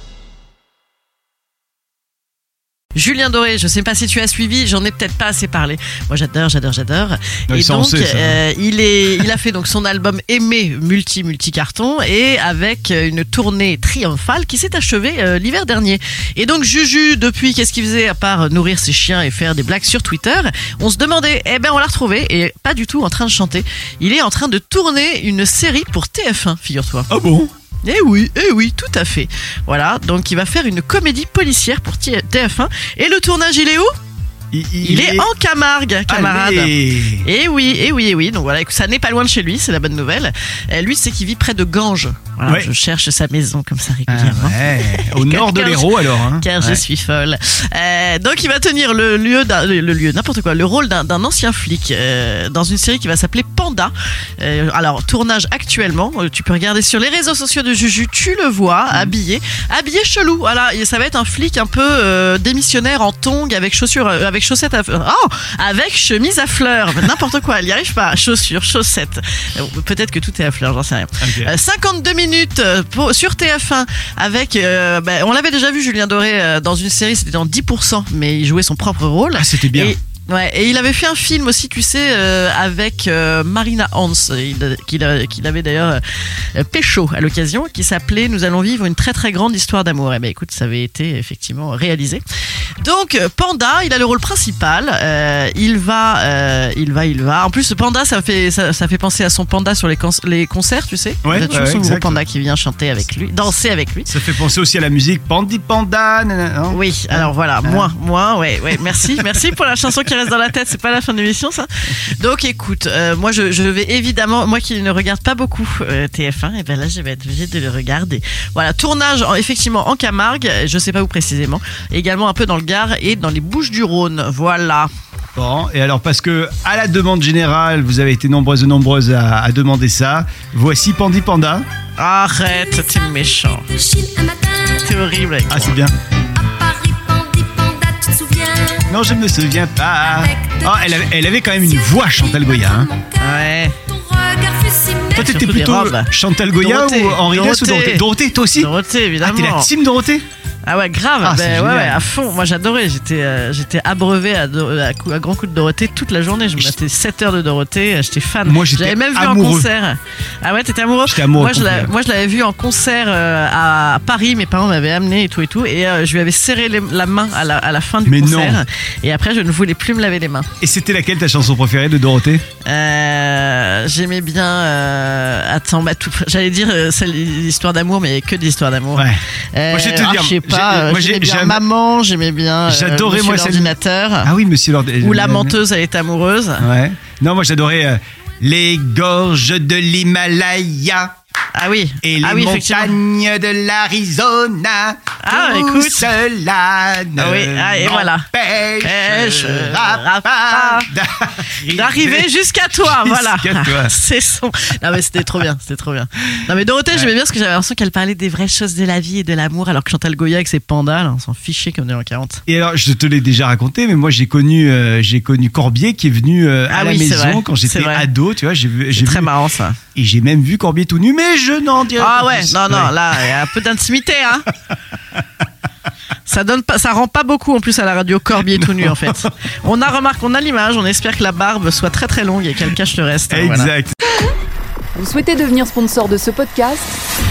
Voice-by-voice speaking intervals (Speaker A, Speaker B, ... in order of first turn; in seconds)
Speaker A: 2.9-27.1, 27.8-33.9, 34.8-86.0, 86.5-92.2, 92.8-104.1, 106.7-124.9, 132.0-133.8, 134.7-135.8, 143.2-143.9, 145.1-149.7, 150.6-170.5, 172.6-184.3, 185.0-186.7, 191.5-193.0, 195.2-196.1, 197.2-198.3, 198.8-200.9, 201.7-212.4, 216.7-218.1, 218.9-219.8, 222.0-224.5, 226.2-233.7
Speaker B: 7.5-8.4, 27.1-27.5, 34.5-35.3, 36.1-37.3, 44.1-46.8, 71.2-71.5, 79.3-80.0, 101.2-102.2, 104.1-107.9, 125.3-131.6, 135.5-135.9, 138.9-142.9, 145.2-148.7, 149.2-150.2, 151.2-152.0, 158.4-159.7, 161.0-161.9, 168.1-168.6, 170.6-172.4, 178.9-181.6, 182.7-185.6, 186.6-191.1, 192.0-203.9, 212.5-219.3, 219.9-223.2, 228.6-229.2, 233.3-233.9
Speaker C: 133.8-134.7, 136.3-138.9, 140.3-140.8, 141.9-143.2, 143.9-145.1
Speaker D: 234.9-237.0